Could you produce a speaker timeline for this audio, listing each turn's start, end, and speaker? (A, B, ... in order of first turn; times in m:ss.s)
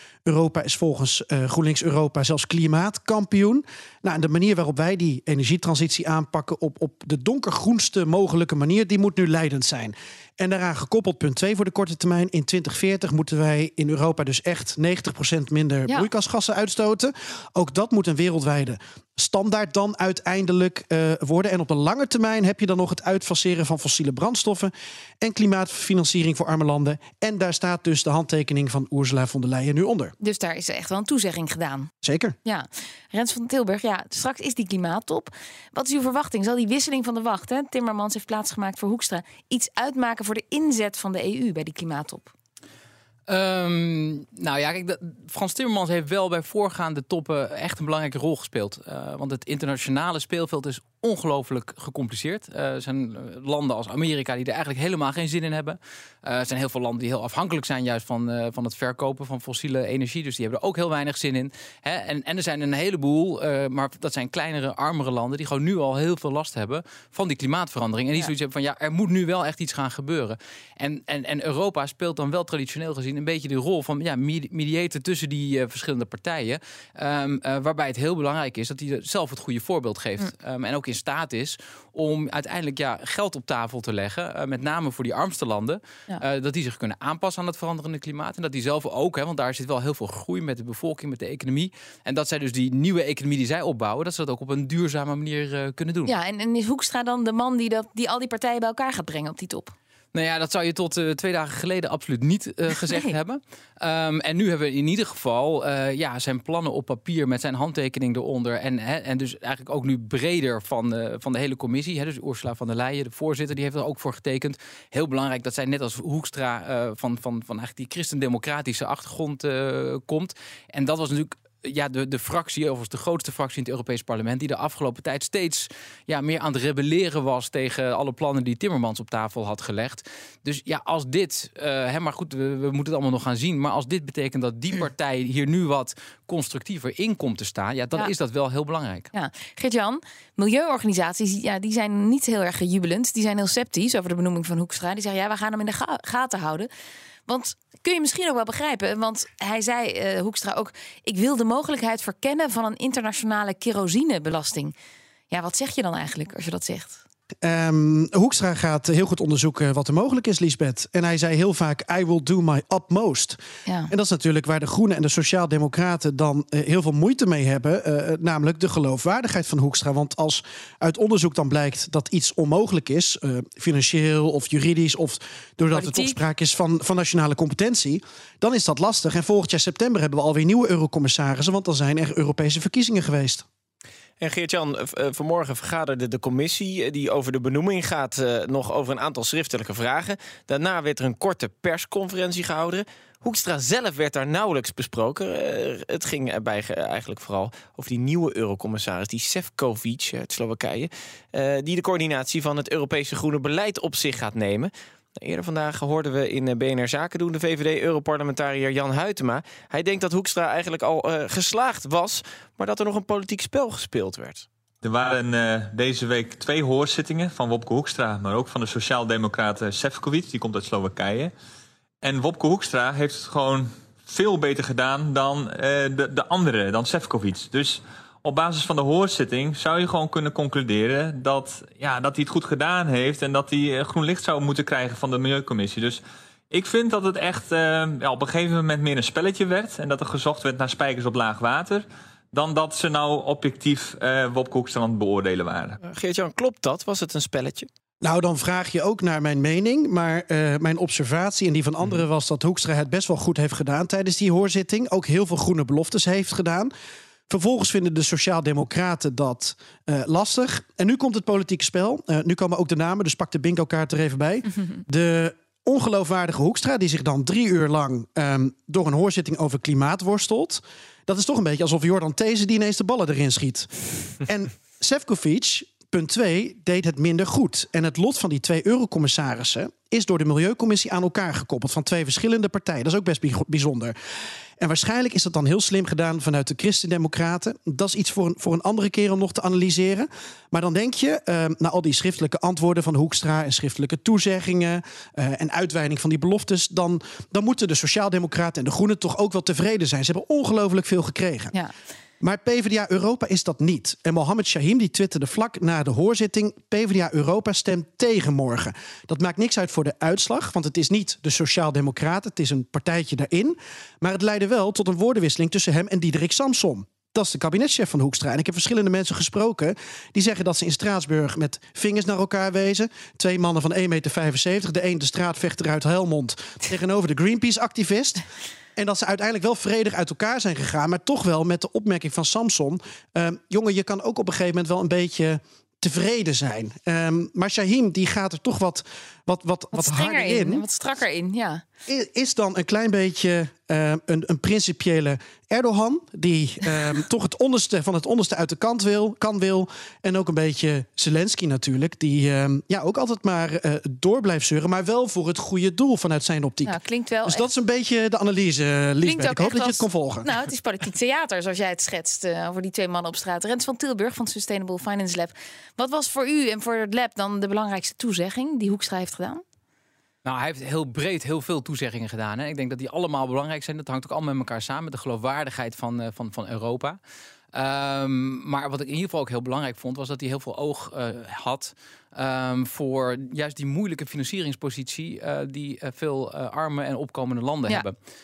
0:00.3-0:30.1 A
0:30.2-0:31.9 B
0:32.0-0:32.4 A
0:32.4-0:42.3 B
0:43.3-1:36.1 C
1:36.1-1:39.7 B
1:40.1-2:19.1 C
2:19.1-2:26.7 B
2:27.3-2:34.7 B
2:35.3-2:37.0 B
2:37.4-3:03.4 A
2:43.7-2:43.9 B
2:55.7-2:56.2 B
3:04.2-3:34.5 D
3:34.8-3:41.3 E
3:42.0-4:05.8 E
4:05.8-4:07.7 D
4:08.0-4:16.7 A
4:17.3-4:33.7 A
4:34.2-4:44.0 A
4:44.6-5:01.5 A
5:02.2-5:28.2 A
5:28.8-5:40.6 A
5:39.7-5:41.6 B
5:41.9-6:00.3 A
5:56.6-5:57.5 B
5:59.0-6:09.4 B
6:10.2-6:17.0 C
6:17.5-6:28.0 C